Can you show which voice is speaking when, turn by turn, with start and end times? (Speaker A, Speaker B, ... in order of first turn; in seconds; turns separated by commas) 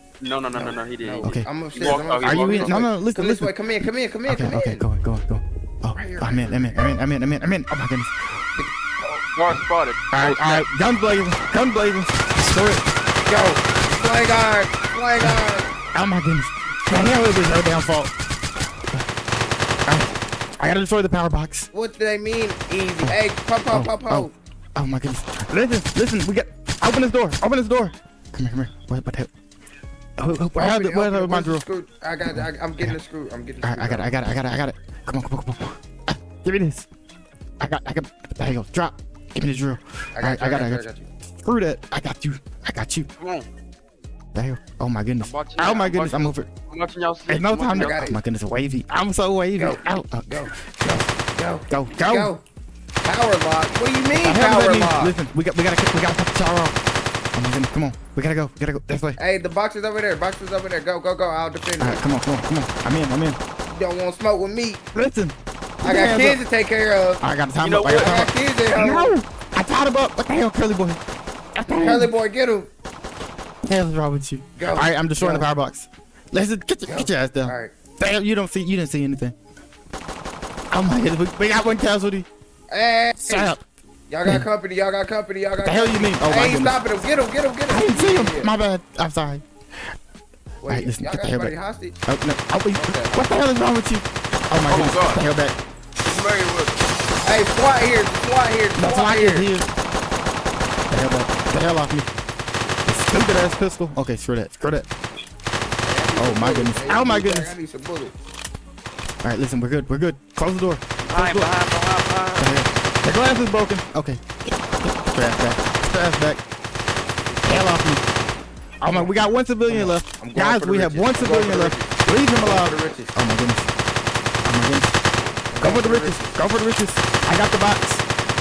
Speaker A: 0.2-2.9, Speaker B: 0.5-4.8, Speaker C: 1.2-3.5, Speaker C: 4.3-8.4, Speaker B: 5.9-7.0, Speaker A: 9.0-10.7, Speaker C: 10.1-12.9, Speaker B: 13.3-15.7, Speaker C: 15.9-18.1, Speaker C: 19.9-21.7, Speaker B: 21.7-24.4, Speaker C: 23.7-29.3, Speaker C: 30.2-31.6, Speaker B: 30.6-34.1, Speaker C: 32.3-33.0, Speaker C: 33.6-36.9, Speaker C: 37.6-43.1, Speaker B: 40.1-41.1, Speaker A: 43.2-43.5, Speaker C: 44.4-46.5, Speaker A: 45.2-48.0, Speaker C: 47.3-51.1, Speaker B: 47.8-48.2, Speaker B: 49.6-52.4, Speaker C: 51.7-52.3, Speaker B: 53.0-55.2, Speaker C: 54.1-56.8, Speaker C: 57.3-59.2, Speaker B: 59.2-62.0, Speaker C: 61.8-63.4, Speaker B: 63.7-64.8, Speaker C: 64.9-66.4, Speaker B: 65.8-67.2, Speaker C: 67.2-71.0, Speaker A: 67.6-68.2, Speaker B: 68.0-69.2, Speaker C: 71.5-72.1, Speaker B: 71.7-72.7, Speaker C: 73.6-79.3, Speaker B: 74.5-75.5, Speaker B: 76.9-77.7, Speaker C: 80.7-82.3, Speaker B: 82.7-83.5, Speaker C: 83.2-83.6, Speaker B: 84.1-88.5, Speaker C: 85.6-86.8, Speaker C: 87.7-89.4, Speaker B: 90.6-92.0, Speaker C: 90.7-91.5, Speaker C: 92.1-95.6, Speaker B: 92.8-93.3, Speaker A: 94.7-95.2, Speaker A: 96.0-96.9, Speaker B: 97.2-99.5, Speaker C: 98.8-99.7, Speaker C: 100.9-102.1, Speaker C: 102.9-104.9, Speaker B: 105.8-108.2, Speaker C: 106.2-107.5, Speaker C: 109.2-111.5, Speaker A: 111.0-112.5, Speaker C: 112.4-116.4, Speaker B: 117.3-117.7, Speaker C: 117.5-118.0, Speaker C: 118.8-123.7, Speaker B: 119.7-123.2, Speaker C: 124.5-125.0, Speaker B: 125.5-126.4, Speaker C: 125.6-128.0